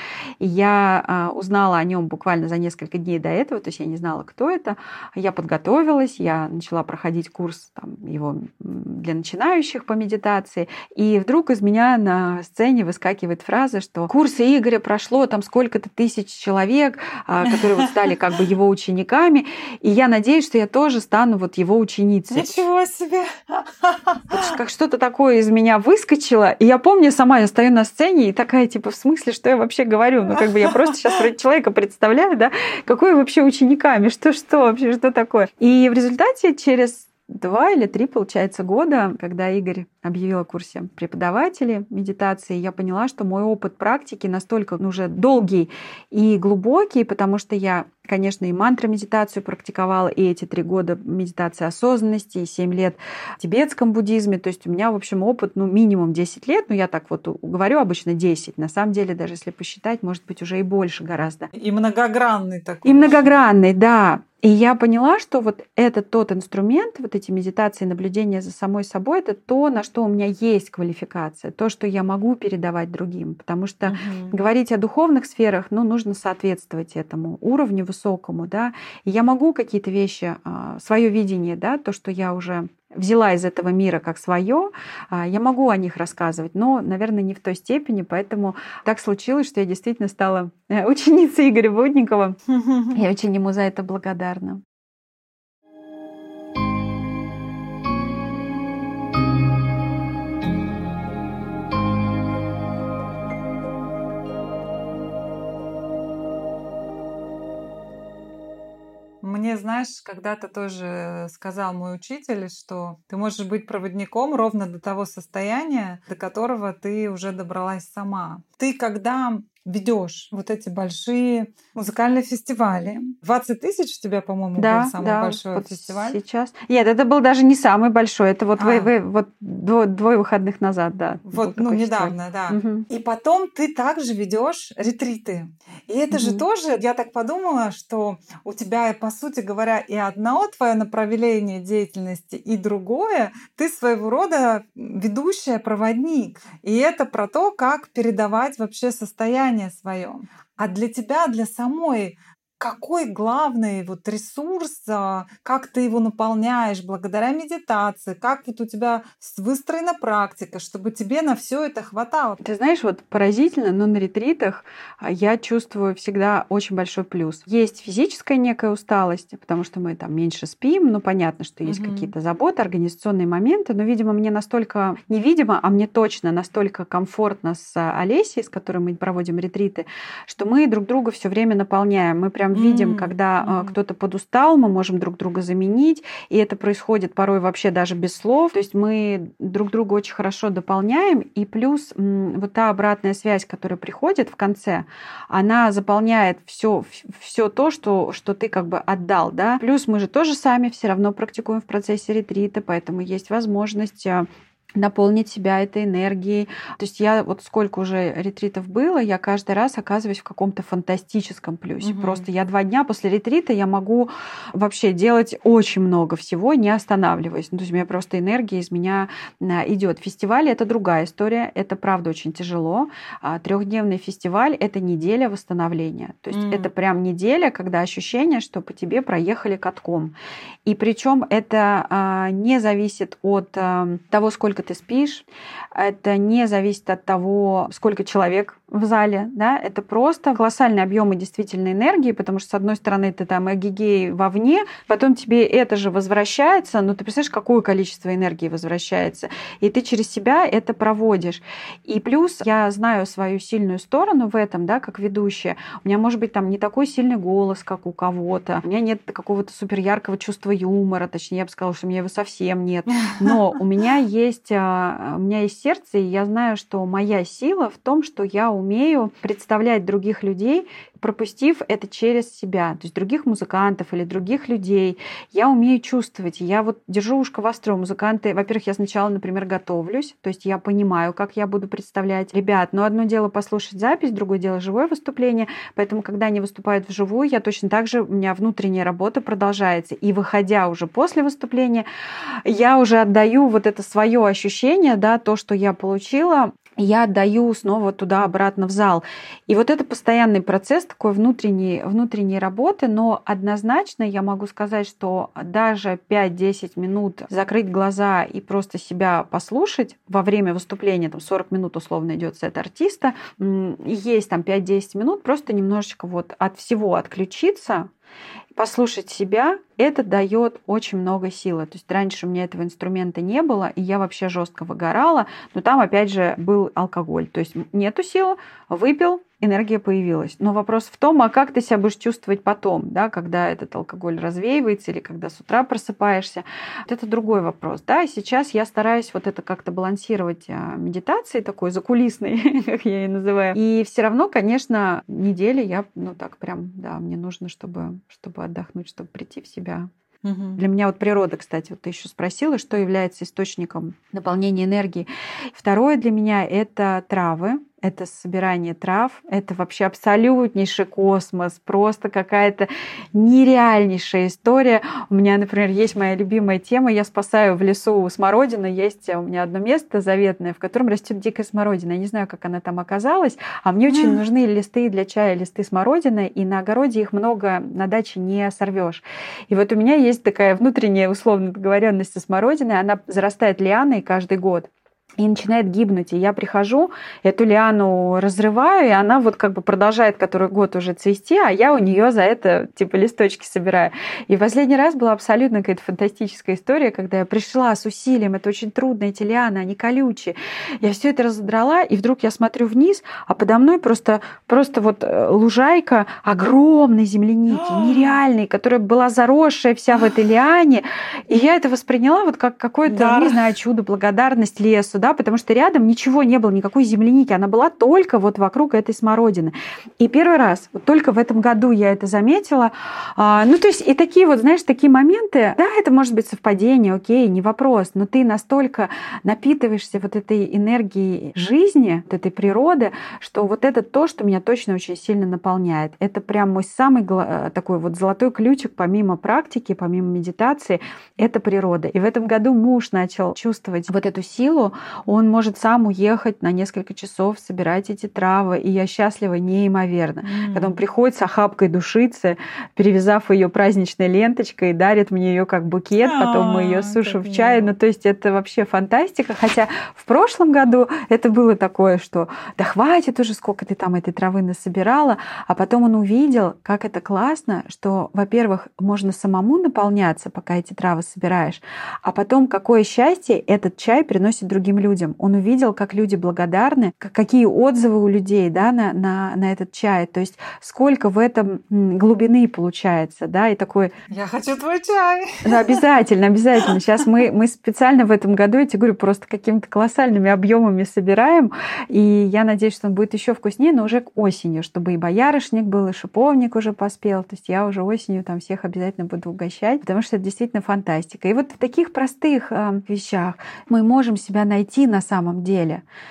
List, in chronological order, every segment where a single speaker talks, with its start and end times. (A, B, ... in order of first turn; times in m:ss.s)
0:00.4-0:22.6 A
0:17.5-0:18.1 B
0:22.3-0:24.4 B
0:24.3-1:01.5 A
0:30.6-0:31.2 B
1:01.5-1:03.3 B
1:02.8-1:32.4 A
1:13.8-1:14.4 B
1:32.5-1:33.0 B
1:32.9-1:34.6 A
1:49.2-2:06.2 B
2:04.6-2:12.8 A
2:08.6-2:08.9 B
2:11.3-2:42.4 B
2:16.1-2:16.4 A
2:42.4-3:50.1 A
2:51.6-2:52.1 B
3:02.5-3:03.7 B
3:31.8-3:32.3 B
3:46.3-3:46.7 B
3:50.6-4:51.8 A
4:23.0-4:23.4 B
4:52.4-5:17.9 A
5:18.5-5:49.9 A
5:50.2-5:50.6 B
5:50.6-8:03.9 A
6:13.9-6:14.2 B
6:47.5-6:48.2 B
6:52.8-6:53.5 B
7:30.2-7:30.8 B
7:36.0-7:37.7 B
8:04.1-8:05.8 B
8:05.4-8:25.8 A
8:06.6-8:07.2 B